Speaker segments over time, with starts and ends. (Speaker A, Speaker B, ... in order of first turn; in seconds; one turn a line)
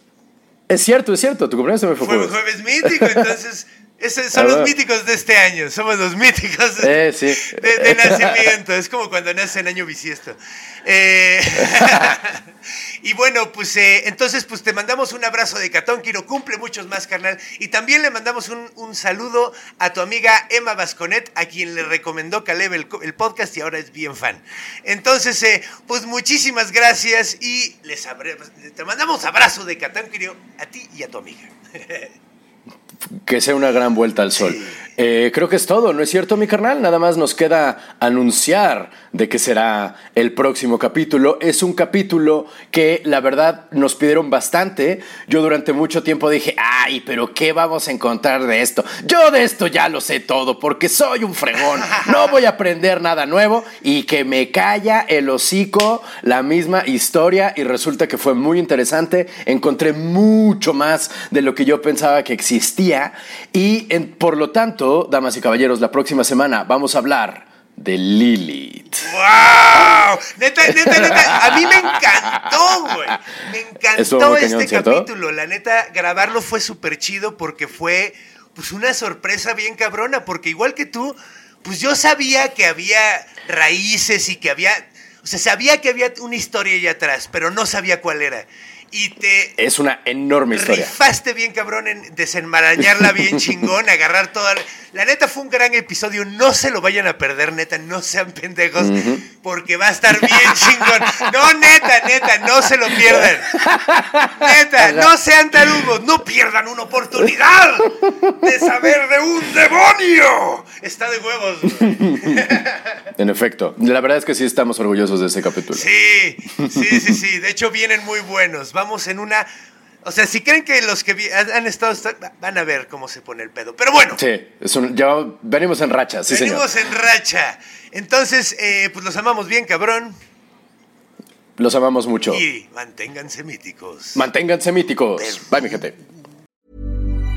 Speaker A: 0.7-3.4
Speaker B: 2.0-12.4
Speaker A: 4.3-4.8
Speaker A: 6.8-8.6
Speaker A: 11.6-12.2
Speaker B: 13.0-32.1
Speaker A: 33.2-69.1
Speaker B: 34.4-34.8
Speaker B: 51.7-52.4
Speaker B: 69.0-89.5
Speaker A: 69.8-70.0
Speaker A: 70.7-73.2
Speaker A: 74.0-75.1
Speaker A: 89.6-91.0
Speaker B: 90.5-103.7
Speaker A: 92.8-93.5
Speaker A: 98.8-99.2
Speaker A: 100.2-101.3
Speaker A: 102.9-105.9
Speaker B: 104.4-112.8
Speaker A: 108.0-108.9
Speaker A: 111.7-112.4
Speaker A: 113.2-115.9
Speaker B: 115.7-119.5
Speaker A: 116.6-117.2
Speaker B: 120.0-124.2
Speaker A: 124.2-126.7
Speaker B: 126.3-130.2
Speaker A: 131.6-132.4
Speaker B: 132.3-134.3
Speaker A: 134.1-135.9
Speaker B: 135.2-135.8